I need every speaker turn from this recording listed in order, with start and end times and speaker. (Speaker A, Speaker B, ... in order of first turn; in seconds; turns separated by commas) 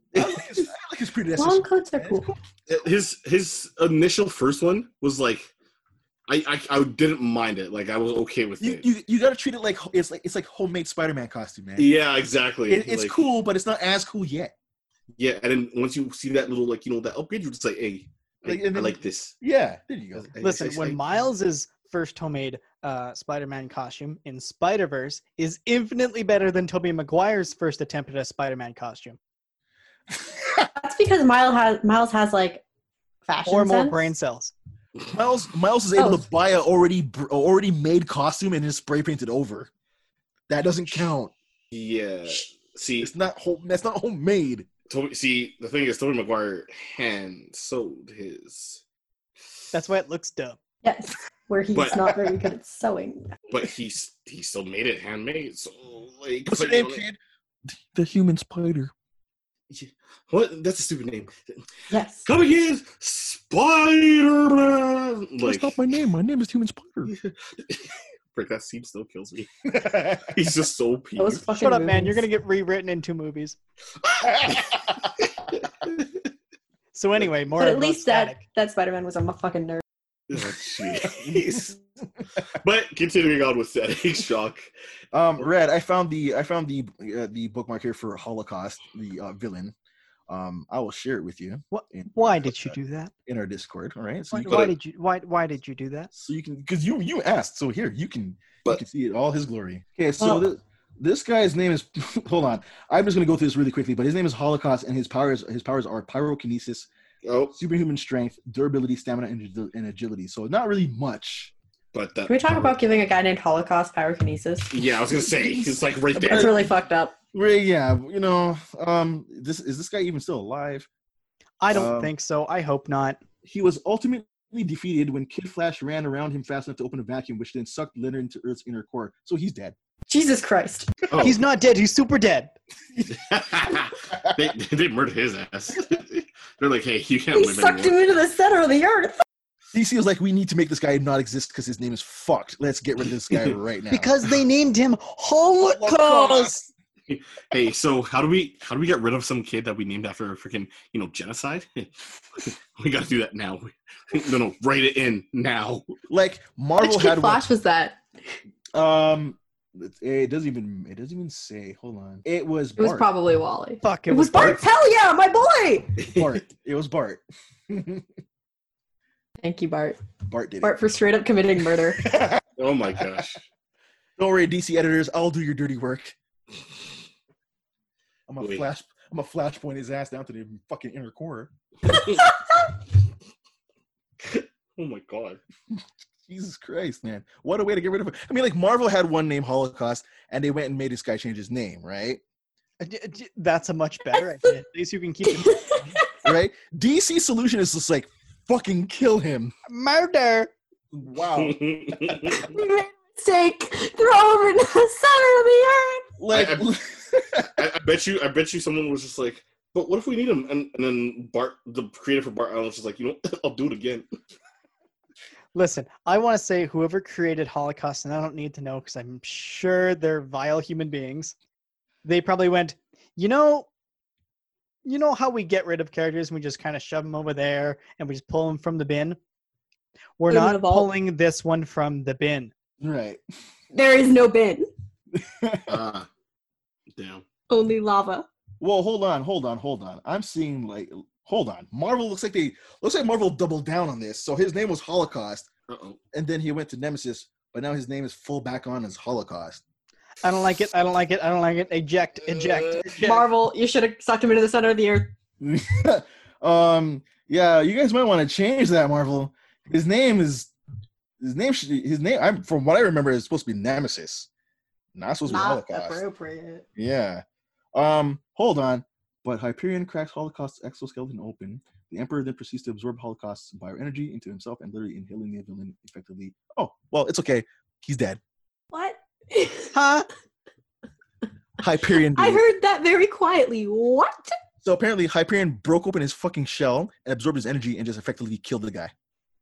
Speaker A: 0.1-2.4, Speaker B: 1.4-2.3, Speaker C: 2.7-5.5, Speaker C: 6.3-8.8, Speaker A: 8.6-11.9, Speaker C: 11.8-13.2, Speaker A: 12.7-14.5, Speaker C: 15.2-19.4, Speaker A: 18.4-20.4, Speaker C: 20.1-21.3, Speaker D: 20.4-29.2, Speaker B: 30.8-32.6, Speaker B: 33.2-34.0, Speaker D: 33.4-34.5, Speaker A: 35.1-39.7, Speaker B: 36.0-36.2, Speaker A: 40.5-41.3, Speaker C: 41.7-43.1, Speaker A: 43.0-44.7, Speaker C: 44.9-48.8, Speaker D: 49.7-50.6, Speaker B: 50.8-53.4, Speaker C: 51.7-52.1, Speaker C: 53.5-57.0, Speaker A: 56.5-58.9, Speaker C: 59.7-61.3, Speaker B: 61.9-62.3, Speaker C: 62.2-65.8, Speaker A: 65.4-67.1, Speaker C: 67.0-71.5, Speaker A: 69.7-70.3, Speaker B: 71.2-72.2, Speaker D: 71.6-73.6, Speaker A: 74.2-74.6, Speaker C: 74.4-74.8, Speaker D: 76.9-78.4, Speaker B: 77.6-79.8, Speaker C: 80.3-81.8, Speaker A: 81.0-81.7, Speaker C: 82.5-84.7, Speaker A: 85.1-89.7, Speaker A: 90.3-94.7, Speaker D: 91.7-93.1, Speaker D: 94.3-96.1, Speaker A: 96.1-106.9, Speaker B: 100.2-100.4, Speaker C: 107.2-107.6, Speaker A: 107.5-111.5, Speaker C: 111.9-112.8, Speaker B: 112.3-114.7, Speaker C: 114.7-116.7, Speaker B: 116.2-117.1, Speaker A: 116.2-116.5, Speaker A: 117.3-120.9, Speaker D: 121.6-123.2, Speaker A: 121.7-122.1, Speaker A: 123.4-129.7, Speaker B: 130.1-130.9, Speaker C: 131.1-131.4, Speaker D: 131.2-132.5, Speaker C: 133.1-137.9, Speaker B: 137.3-139.2, Speaker A: 139.7-144.1, Speaker C: 143.3-143.6, Speaker D: 143.9-146.6, Speaker A: 145.7-146.6, Speaker C: 147.1-155.9, Speaker A: 156.1-157.4, Speaker B: 156.8-158.0, Speaker A: 158.7-163.1, Speaker B: 162.8-166.0, Speaker D: 163.8-164.6, Speaker C: 166.0-166.3, Speaker A: 166.1-168.0, Speaker B: 169.4-170.0, Speaker A: 170.3-170.8, Speaker B: 170.6-172.1, Speaker A: 172.0-172.4, Speaker C: 172.6-173.4, Speaker A: 174.2-176.2, Speaker A: 178.3-181.5, Speaker C: 178.4-178.7, Speaker B: 181.9-182.7, Speaker C: 184.2-185.4, Speaker A: 185.7-192.2, Speaker D: 192.8-195.6, Speaker B: 195.2-196.3, Speaker A: 196.2-199.5, Speaker D: 199.7-200.5, Speaker A: 200.9-202.4, Speaker C: 201.3-202.5, Speaker B: 202.4-206.1, Speaker A: 206.2-207.5, Speaker C: 206.3-206.7, Speaker C: 207.6-214.1, Speaker D: 215.5-221.3, Speaker D: 222.0-223.7, Speaker D: 224.8-229.2, Speaker D: 230.2-232.5, Speaker B: 230.3-230.9, Speaker A: 232.8-233.2, Speaker B: 233.7-234.7, Speaker A: 235.1-235.8, Speaker C: 235.7-236.1, Speaker C: 236.9-237.2, Speaker B: 237.5-238.3, Speaker A: 238.6-245.5, Speaker C: 245.7-246.0, Speaker A: 246.1-249.6, Speaker D: 250.2-253.2, Speaker C: 252.5-252.8, Speaker B: 252.9-255.1, Speaker A: 255.4-260.5, Speaker A: 261.2-264.3, Speaker A: 264.9-266.0, Speaker B: 265.2-266.6, Speaker A: 266.8-267.2, Speaker A: 267.7-278.2, Speaker B: 278.7-279.8, Speaker D: 279.7-280.1, Speaker A: 281.6-282.4, Speaker B: 282.1-284.3, Speaker A: 284.6-288.9